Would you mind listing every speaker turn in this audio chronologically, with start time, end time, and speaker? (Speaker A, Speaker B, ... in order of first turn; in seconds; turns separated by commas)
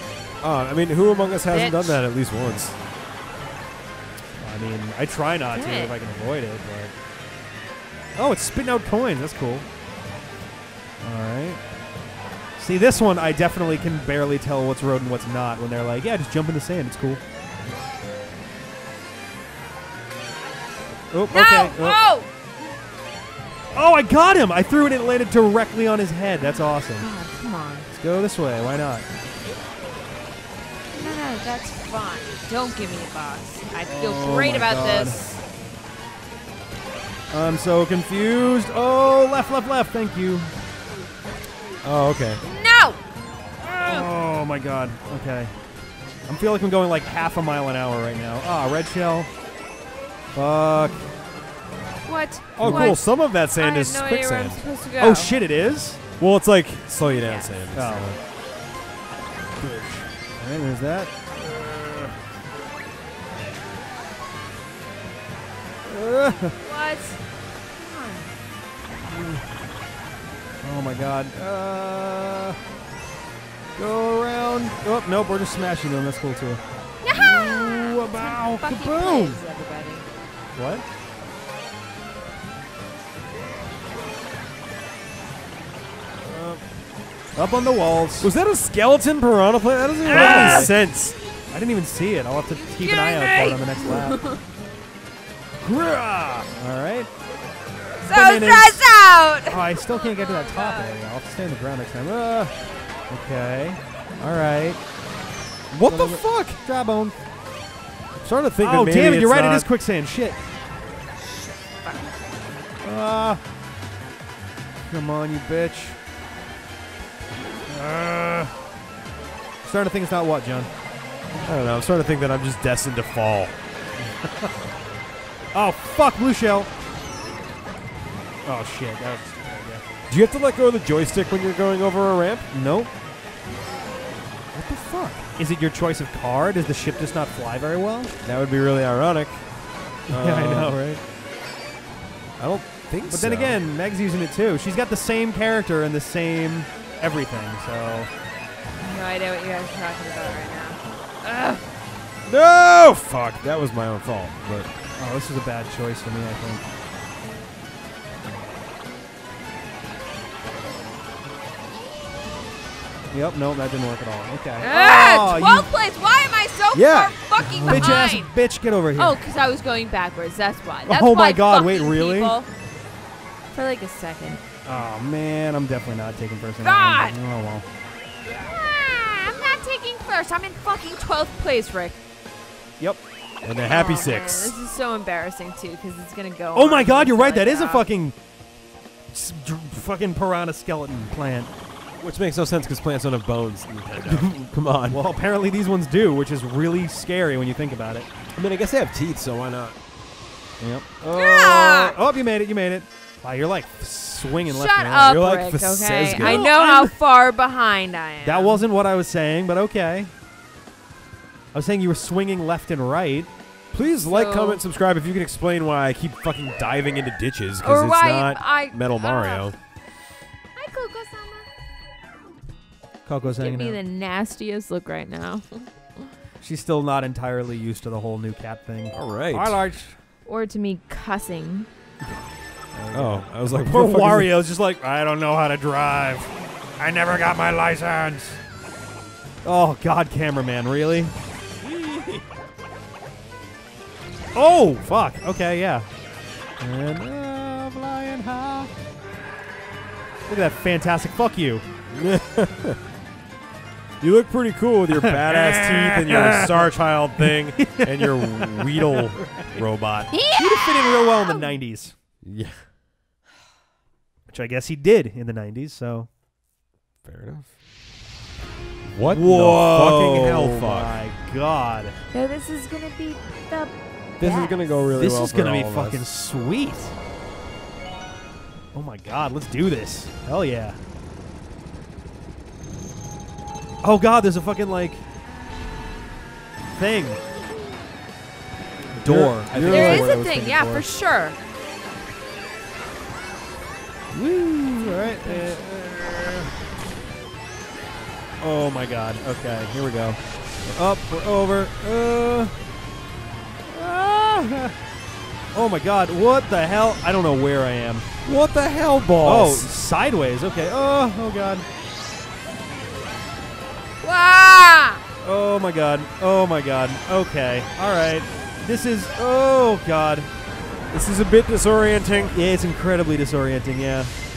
Speaker A: 0.4-2.8, Speaker B: 1.5-2.0, Speaker C: 4.4-6.9, Speaker B: 5.5-5.9, Speaker C: 8.2-9.7, Speaker C: 11.0-11.6, Speaker C: 12.6-17.2, Speaker C: 21.1-22.0, Speaker B: 21.3-22.3, Speaker C: 23.8-27.1, Speaker B: 27.0-27.9, Speaker C: 27.9-29.1, Speaker B: 30.9-35.4, Speaker C: 33.9-35.2, Speaker C: 37.3-40.5, Speaker A: 41.8-42.4, Speaker B: 42.4-43.0, Speaker C: 43.6-45.5, Speaker C: 46.3-49.3, Speaker C: 50.4-51.0, Speaker B: 52.0-55.3, Speaker A: 52.6-54.6, Speaker C: 52.6-53.0, Speaker C: 55.0-56.0, Speaker A: 56.2-58.2, Speaker B: 57.2-57.6, Speaker C: 57.7-58.1, Speaker C: 59.6-62.1, Speaker C: 65.8-66.6, Speaker B: 66.6-67.2, Speaker B: 67.8-68.3, Speaker C: 69.1-69.4, Speaker C: 70.6-72.6, Speaker C: 73.8-76.6, Speaker B: 77.0-80.1, Speaker C: 77.1-79.4, Speaker C: 80.5-80.8, Speaker A: 86.2-86.6, Speaker C: 87.3-88.3, Speaker A: 88.2-91.2, Speaker C: 90.1-90.7, Speaker B: 90.1-90.7, Speaker C: 91.5-94.2, Speaker B: 92.5-94.4, Speaker C: 95.6-97.1, Speaker B: 98.0-101.0, Speaker C: 98.1-98.8, Speaker C: 99.5-102.5, Speaker C: 103.1-104.8, Speaker A: 105.7-106.6, Speaker C: 105.8-107.2, Speaker A: 108.2-109.7, Speaker C: 108.6-110.4, Speaker B: 111.2-112.0, Speaker C: 112.8-113.4, Speaker C: 114.9-116.0, Speaker C: 117.7-118.5, Speaker C: 119.6-120.7, Speaker A: 121.4-123.6, Speaker C: 124.0-124.5, Speaker C: 125.5-126.7, Speaker C: 128.4-129.8, Speaker A: 130.1-132.5, Speaker C: 132.5-132.9, Speaker C: 134.5-138.1, Speaker A: 138.2-139.5, Speaker A: 140.1-140.8, Speaker C: 140.1-141.0, Speaker A: 142.4-143.6, Speaker C: 143.1-148.1, Speaker B: 148.8-151.6, Speaker A: 152.2-154.7, Speaker C: 155.0-156.6, Speaker C: 163.1-165.7, Speaker B: 164.6-168.3, Speaker A: 166.7-168.1, Speaker C: 167.5-169.2, Speaker B: 169.0-172.5, Speaker C: 170.8-172.3, Speaker B: 173.5-174.4, Speaker C: 174.7-177.7, Speaker B: 176.6-177.2, Speaker B: 178.3-182.0, Speaker A: 183.4-184.6, Speaker B: 183.7-187.8, Speaker C: 186.6-188.2, Speaker C: 189.1-191.5, Speaker A: 192.0-195.0, Speaker C: 194.1-194.3, Speaker C: 194.9-198.1, Speaker A: 198.3-199.8, Speaker C: 200.6-205.1, Speaker B: 201.0-202.0, Speaker B: 204.5-208.6, Speaker A: 205.1-206.4, Speaker C: 206.2-206.9, Speaker C: 208.2-210.1, Speaker C: 211.5-213.3, Speaker A: 213.7-219.6, Speaker B: 214.1-214.6, Speaker B: 217.6-219.6, Speaker B: 220.6-221.4, Speaker C: 223.1-223.8, Speaker B: 223.4-225.7, Speaker C: 226.4-230.0, Speaker A: 228.9-229.6, Speaker B: 230.3-231.7, Speaker C: 232.7-238.4, Speaker A: 232.9-234.3, Speaker C: 239.4-242.2, Speaker C: 244.3-245.9, Speaker C: 246.6-248.7, Speaker C: 250.3-251.6, Speaker A: 251.9-252.8, Speaker A: 254.0-260.1, Speaker C: 254.9-256.7, Speaker C: 257.2-259.6, Speaker B: 260.1-261.5, Speaker C: 260.4-261.9, Speaker A: 262.2-262.6, Speaker C: 264.3-266.1, Speaker A: 267.1-267.5, Speaker A: 268.8-270.9, Speaker C: 269.0-271.9, Speaker B: 272.1-274.8, Speaker A: 274.2-276.0, Speaker C: 274.9-276.9, Speaker C: 278.7-280.8, Speaker C: 283.8-285.0, Speaker C: 286.8-287.2, Speaker C: 288.9-290.8, Speaker A: 288.9-290.2, Speaker B: 289.7-291.4, Speaker C: 294.1-296.5, Speaker B: 294.8-295.5, Speaker C: 298.4-302.5, Speaker C: 303.7-304.8, Speaker C: 305.5-308.1, Speaker A: 308.2-309.7, Speaker C: 309.2-311.7, Speaker B: 314.0-315.0, Speaker C: 315.2-320.3, Speaker A: 320.9-322.3, Speaker C: 322.3-324.1